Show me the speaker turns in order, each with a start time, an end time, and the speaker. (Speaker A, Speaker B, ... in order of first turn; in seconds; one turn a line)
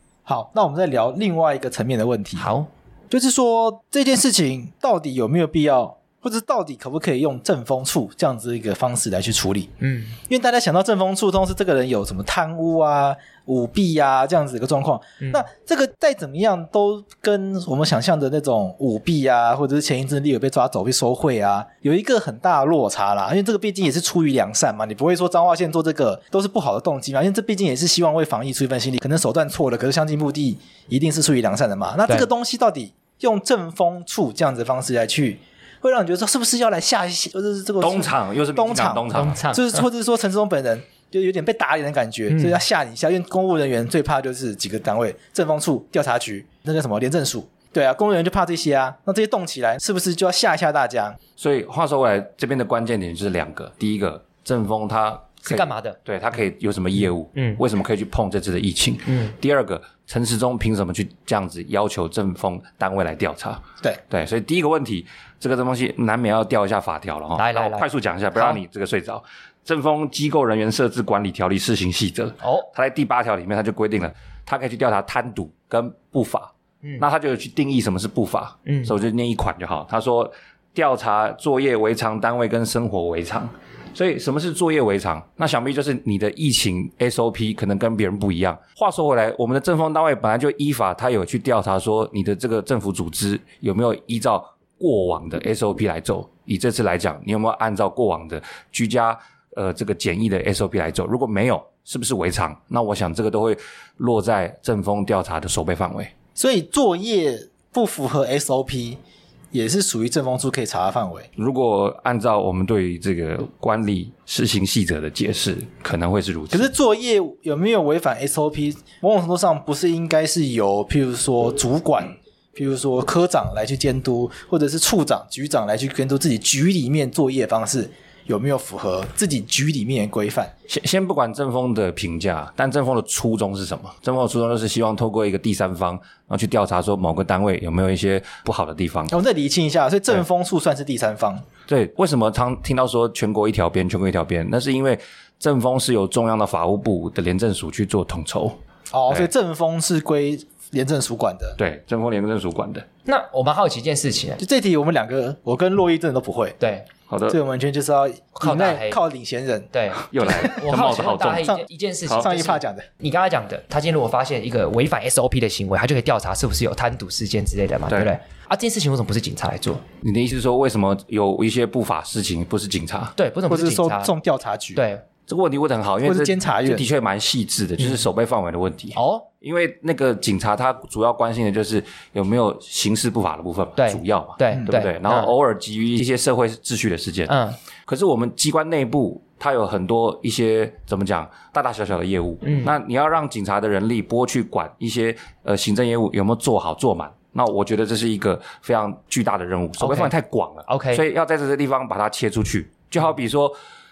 Speaker A: 0.3-2.5
Speaker B: 2.4-2.7
Speaker A: 3.1-9.7
Speaker B: 9.8-10.2
Speaker A: 10.3-51.2
Speaker B: 15.2-15.5
Speaker C: 37.8-39.4
Speaker B: 39.1-39.8
Speaker B: 42.3-42.6
Speaker C: 51.4-106.1
Speaker B: 55.4-56.0
Speaker B: 57.4-57.6
Speaker B: 59.1-59.3
Speaker B: 67.4-68.6
Speaker B: 72.4-72.7
Speaker B: 78.7-78.9
Speaker A: 106.4-109.0
Speaker A: 109.5-111.3
Speaker C: 111.4-116.7
Speaker A: 116.5-130.5
Speaker C: 130.7-139.1
Speaker A: 139.1-141.5
Speaker C: 141.7-149.3
Speaker A: 148.9-151.6
Speaker C: 151.6-152.9
Speaker B: 153.1-154.4
Speaker A: 154.4-156.6
Speaker B: 156.6-156.9
Speaker C: 157.1-157.4
Speaker A: 157.3-159.7
Speaker B: 158.4-159.0
Speaker B: 159.7-169.8
Speaker C: 160.0-161.5
Speaker A: 160.3-162.9
Speaker C: 167.9-168.2
Speaker C: 170.0-173.2
Speaker B: 173.2-174.1
Speaker A: 173.5-174.8
Speaker B: 174.8-175.0
Speaker C: 175.3-187.3
Speaker A: 176.0-176.9
Speaker B: 179.0-179.3
Speaker B: 183.8-185.3
Speaker B: 187.3-187.6
Speaker C: 187.9-203.6
Speaker B: 192.4-192.8
Speaker B: 199.8-200.1
Speaker B: 200.7-201.0